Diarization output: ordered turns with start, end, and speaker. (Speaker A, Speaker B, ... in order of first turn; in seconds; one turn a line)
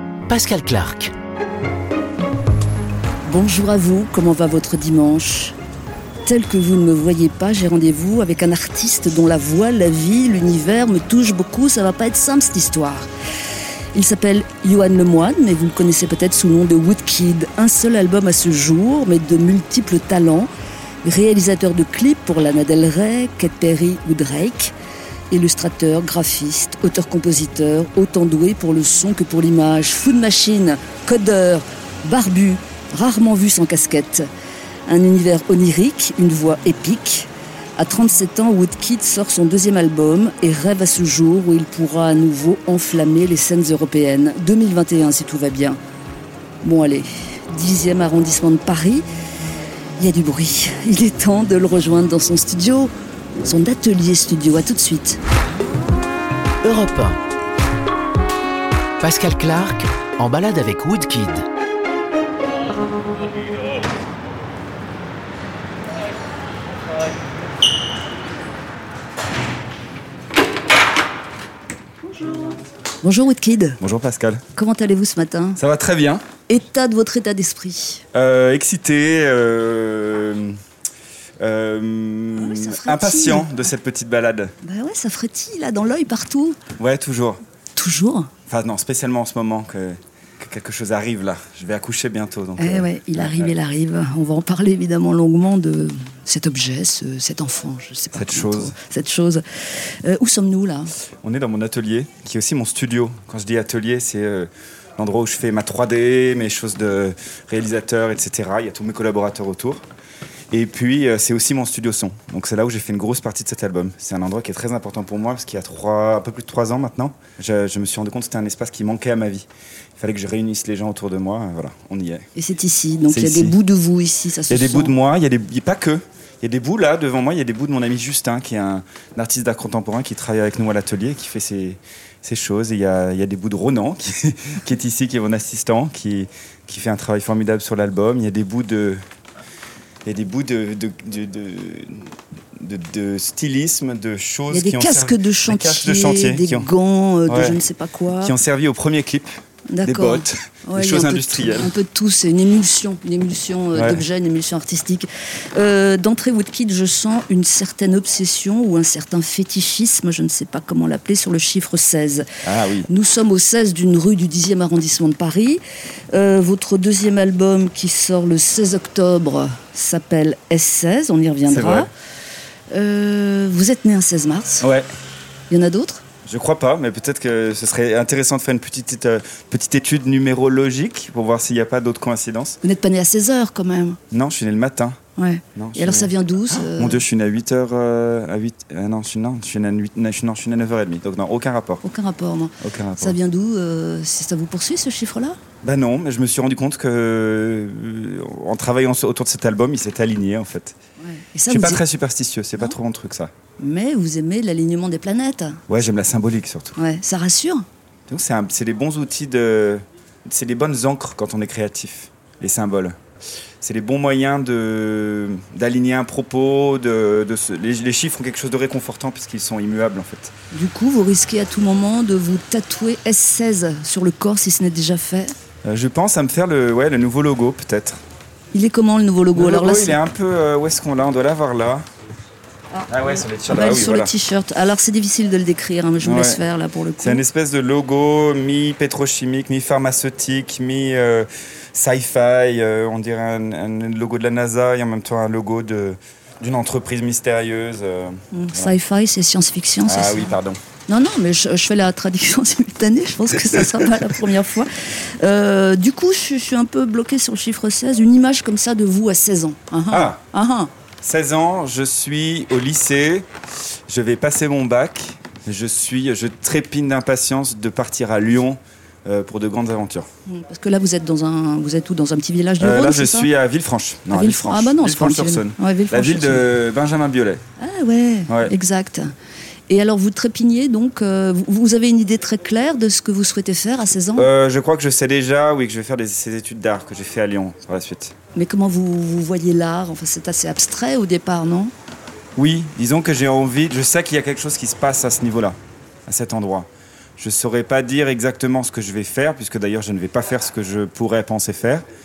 Speaker A: 0.3-1.1
Speaker B: 3.2-5.5
Speaker B: 6.2-13.1
Speaker B: 13.9-20.5
Speaker B: 21.0-24.7
Speaker B: 25.3-34.3
Speaker B: 34.9-45.8
Speaker B: 46.6-49.0
Speaker B: 50.0-52.9
Speaker B: 53.4-55.2
Speaker A: 56.6-57.2
Speaker A: 59.0-61.4
Speaker B: 73.0-73.8
Speaker C: 73.8-74.4
Speaker B: 74.5-75.6
Speaker C: 75.6-76.3
Speaker B: 76.5-78.0
Speaker C: 78.1-80.6
Speaker C: 81.4-84.5
Speaker B: 82.3-83.5
Speaker B: 84.6-86.6
Speaker C: 86.8-87.4
Speaker B: 87.7-88.3
Speaker C: 88.5-93.5
Speaker B: 92.6-100.9
Speaker C: 98.1-98.8
Speaker C: 101.2-109.8
Speaker C: 110.5-122.3
Speaker B: 122.3-124.9
Speaker C: 123.1-123.5
Speaker C: 124.5-139.0
Speaker C: 140.0-146.7
Speaker B: 144.5-148.3
Speaker C: 147.3-147.6
Speaker C: 148.2-149.3
Speaker B: 149.7-162.3
Speaker C: 149.8-151.7
Speaker C: 153.7-154.0
Speaker C: 162.4-162.9
Speaker B: 162.9-171.9
Speaker C: 171.4-171.9
Speaker B: 172.7-174.7
Speaker C: 174.6-174.9
Speaker B: 175.5-176.0
Speaker C: 176.2-182.6
Speaker B: 182.6-184.0
Speaker C: 184.1-185.0
Speaker B: 185.2-187.0
Speaker C: 185.5-191.8
Speaker B: 191.8-195.4
Speaker C: 192.6-193.2
Speaker C: 195.6-200.8
Speaker B: 201.0-201.8
Speaker C: 201.5-203.3
Speaker B: 203.6-205.6
Speaker C: 205.7-206.8
Speaker B: 206.8-207.7
Speaker C: 208.1-213.0
Speaker C: 213.6-220.3
Speaker B: 220.5-225.3
Speaker C: 225.6-228.0
Speaker B: 228.5-229.9
Speaker C: 229.3-231.8
Speaker C: 232.9-234.1
Speaker B: 233.5-237.2
Speaker C: 236.0-236.4
Speaker C: 237.0-248.7
Speaker B: 248.3-250.3
Speaker C: 249.8-250.6
Speaker B: 250.9-260.7
Speaker C: 253.6-253.9
Speaker C: 259.9-260.2
Speaker C: 261.0-263.3
Speaker C: 263.9-270.1
Speaker B: 270.3-273.3
Speaker C: 272.6-277.4
Speaker B: 274.1-276.4
Speaker B: 277.6-279.1
Speaker C: 278.3-278.5
Speaker B: 279.7-284.3
Speaker C: 284.1-288.1
Speaker B: 288.3-291.7
Speaker C: 292.4-301.8